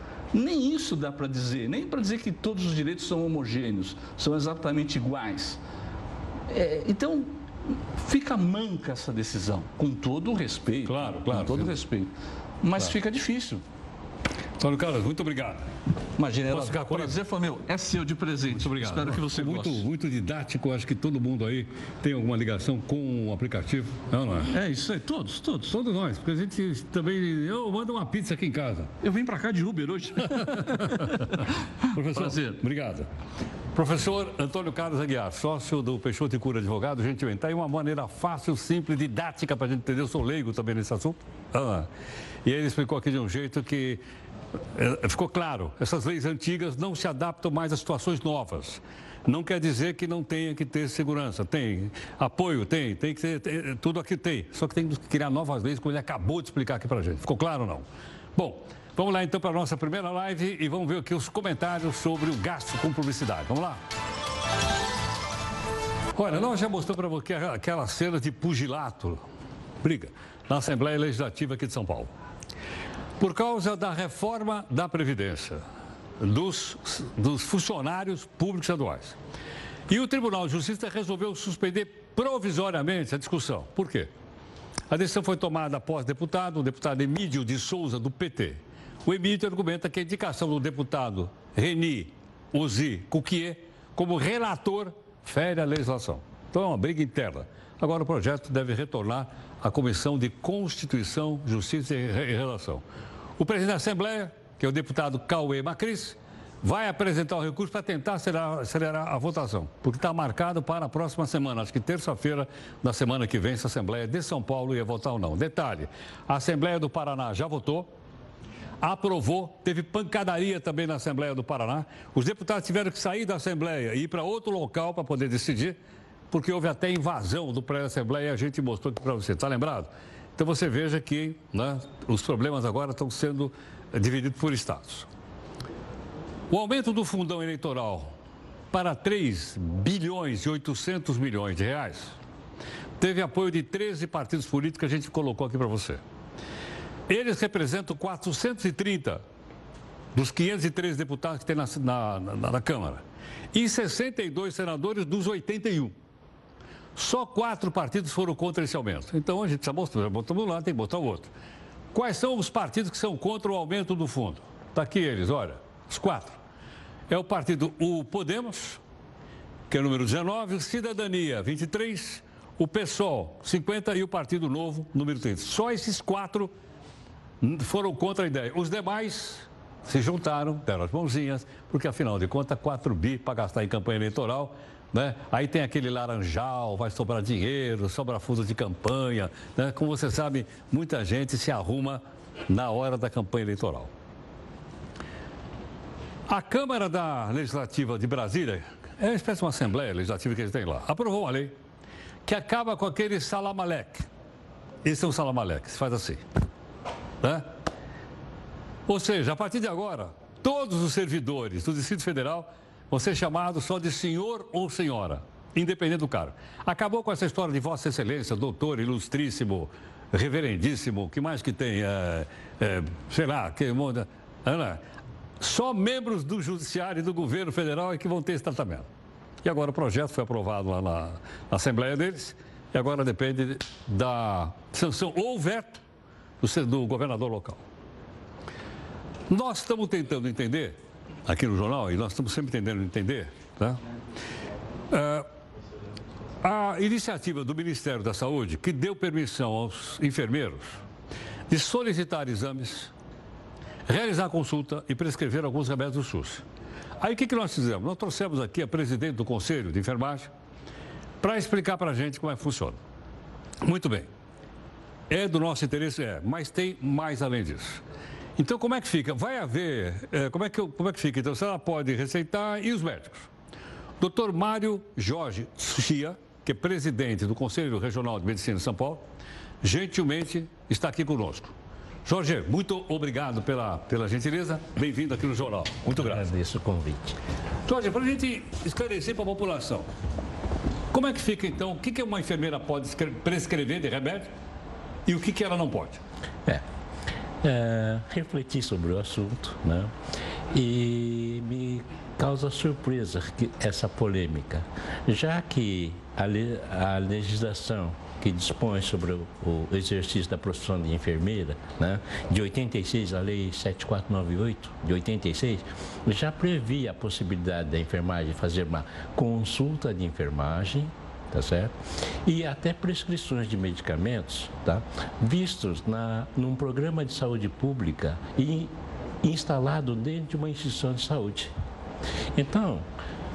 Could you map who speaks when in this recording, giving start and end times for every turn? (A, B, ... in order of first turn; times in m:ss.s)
0:00.3-0:05.6 A
0:06.5-0:13.6 A
0:10.8-0:11.8 B
0:14.6-0:15.6 B
0:16.2-0:19.8 A
0:16.5-0:17.1 B
0:18.5-0:24.5 B
0:24.5-0:25.7 A
0:25.7-0:28.9 B
0:29.0-0:31.5 A
0:30.3-0:33.1 B
0:32.1-0:32.6 A
0:33.7-0:41.9 B
0:42.4-0:44.0 B
0:44.7-0:57.8 B
0:58.4-1:03.8 B
1:06.1-1:09.2 B
1:09.8-1:12.1 B
1:13.2-1:15.6 B
1:16.2-1:19.2 B
1:19.9-1:24.1 B
1:24.9-1:42.8 B
1:43.4-1:57.9 B
1:58.8-2:05.8 B
2:06.3-2:15.1 B
2:16.5-2:18.1 B
2:18.7-2:22.2 B
2:23.0-2:26.0 B
2:27.1-2:29.2 B
2:30.1-2:33.0 B
2:33.5-2:36.0 B
2:37.0-2:41.3 B
2:41.9-2:46.4 B
2:47.1-2:48.8 B
2:49.7-2:56.5 B
2:57.4-3:13.9 B
3:16.3-3:21.6 B
3:22.2-3:24.0 B
3:24.8-3:26.2 B
3:27.2-3:27.5 B
3:28.9-3:44.8 B
3:45.4-3:48.9 B
3:49.4-3:55.8 B
3:56.4-3:57.6 B
3:59.3-4:00.8 B
4:01.3-4:03.8 B
4:04.9-4:05.2 B
4:06.4-4:10.8 B
4:11.5-4:12.9 B
4:13.9-4:16.4 B
4:17.0-4:20.3 B
4:21.2-4:22.8 B
4:23.6-4:24.1 B
4:25.1-4:27.8 B
4:28.4-4:33.3 B
4:34.0-4:39.0 B
4:39.6-4:41.5 B
4:42.0-4:46.3 B
4:45.9-4:47.2 C
4:47.6-4:49.9 B
4:50.9-4:54.3 B
4:55.0-4:56.0 B
4:57.4-4:59.9 C
5:00.5-5:21.7 C
5:22.2-5:28.7 C
5:29.2-5:31.5 C
5:32.3-5:32.8 C